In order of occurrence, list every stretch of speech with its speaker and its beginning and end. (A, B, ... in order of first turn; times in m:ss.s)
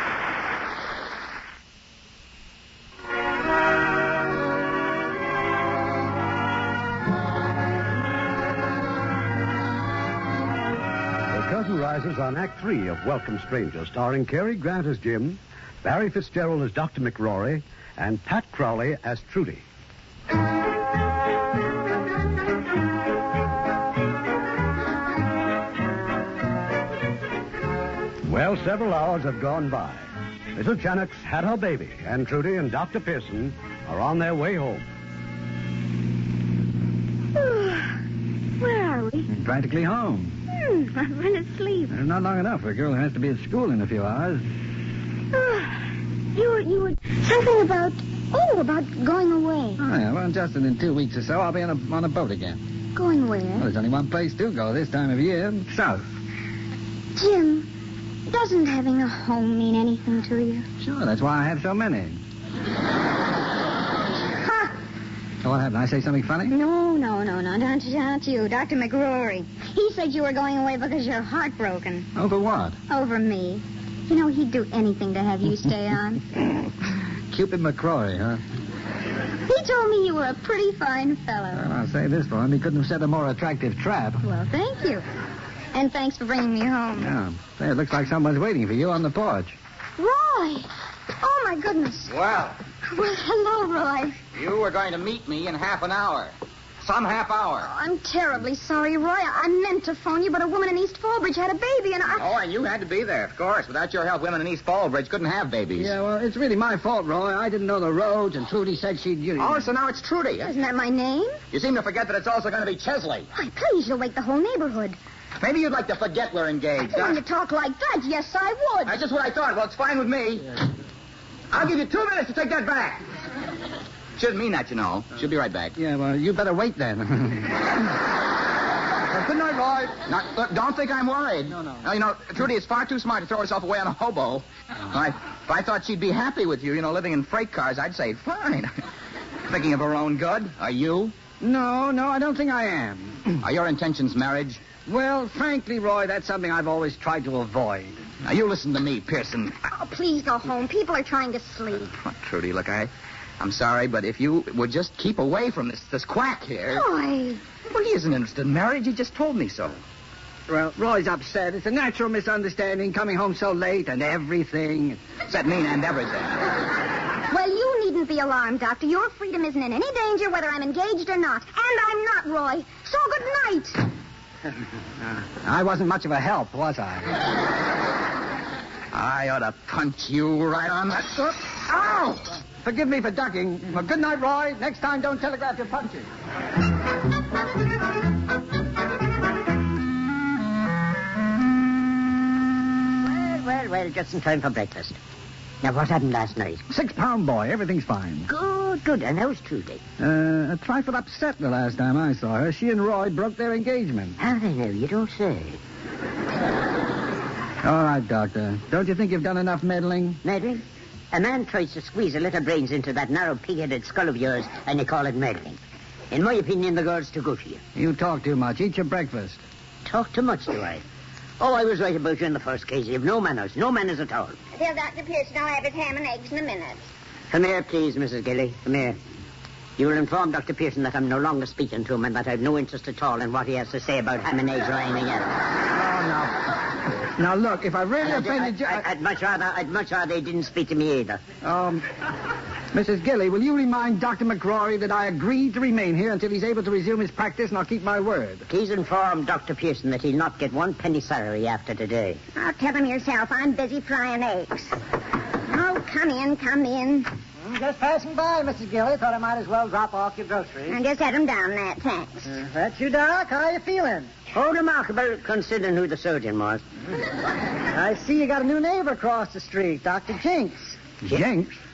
0:11.3-0:19.6 A
0:28.2-0:34.8 A
0:37.4-0:37.8 B
0:38.6-0:39.2 B
0:39.3-0:40.4 C
0:40.6-0:41.9 B
0:41.9-0:44.4 C
0:45.4-0:45.6 B
0:46.4-0:49.7 B
0:49.8-0:52.6 C
0:53.0-0:53.6 B
0:53.6-0:56.0 C
0:57.2-0:57.6 B
0:58.3-1:00.6 B
1:00.8-1:02.2 C
1:04.4-1:04.7 B
1:05.4-1:06.6 C
1:06.6-1:12.0 B
1:12.1-1:12.8 C
1:12.9-1:16.2 B
1:17.3-1:18.4 C
1:19.5-1:21.6 B
1:21.5-1:24.2 C
1:24.3-1:25.0 B
1:25.7-1:27.0 B
1:27.0-1:29.6 C
1:30.0-1:30.7 B
1:31.2-1:32.0 B
1:32.1-1:32.6 D
1:32.9-1:34.1 B
1:34.3-1:37.7 D
1:37.8-1:42.1 B
1:42.1-1:45.9 D
1:45.8-1:49.7 C
1:49.4-1:50.6 D
1:50.5-1:51.3 B
1:51.5-1:53.3 D
1:53.4-1:55.0 B
1:55.4-1:57.2 D
1:57.2-1:58.9 B
1:58.9-2:00.6 D
2:01.5-2:03.0 D
2:04.2-2:05.7 D
2:05.8-2:07.6 C
2:09.1-2:10.0 C
2:10.0-2:18.7 D
2:19.4-2:21.1 D
2:21.4-2:23.4 C
2:23.4-2:24.7 D
2:24.8-2:28.0 C
2:28.2-2:29.6 D
2:29.8-2:31.8 B
2:31.9-2:36.9 D
2:36.9-2:37.4 B
2:37.6-2:39.8 D
2:40.5-2:45.0 C
2:45.3-2:46.6 D
2:47.3-2:53.8 B
2:55.4-2:57.1 C
2:58.9-3:02.2 D
3:02.6-3:06.0 C
3:13.0-3:15.0 E
3:15.6-3:16.6 E
3:16.7-3:18.3 C
3:18.3-3:19.8 E
3:20.0-3:24.2 C
3:24.2-3:25.6 E
3:27.6-3:30.2 C
3:30.2-3:35.6 E
3:36.1-3:37.6 E
3:37.7-3:39.4 C
3:39.8-3:40.8 E
3:41.4-3:44.4 E
3:44.5-3:46.8 B
3:47.3-3:49.0 E
3:49.8-3:55.5 E
3:55.8-3:56.4 C
3:57.2-3:58.8 C
3:58.0-4:01.2 E
4:01.4-4:01.8 C
4:02.7-4:08.4 C
4:08.5-4:12.2 E
4:12.4-4:14.7 B
4:15.4-4:17.1 B
4:17.5-4:20.7 C
4:20.7-4:22.3 B
4:22.4-4:24.1 C
4:24.3-4:26.6 E
4:27.7-4:31.5 C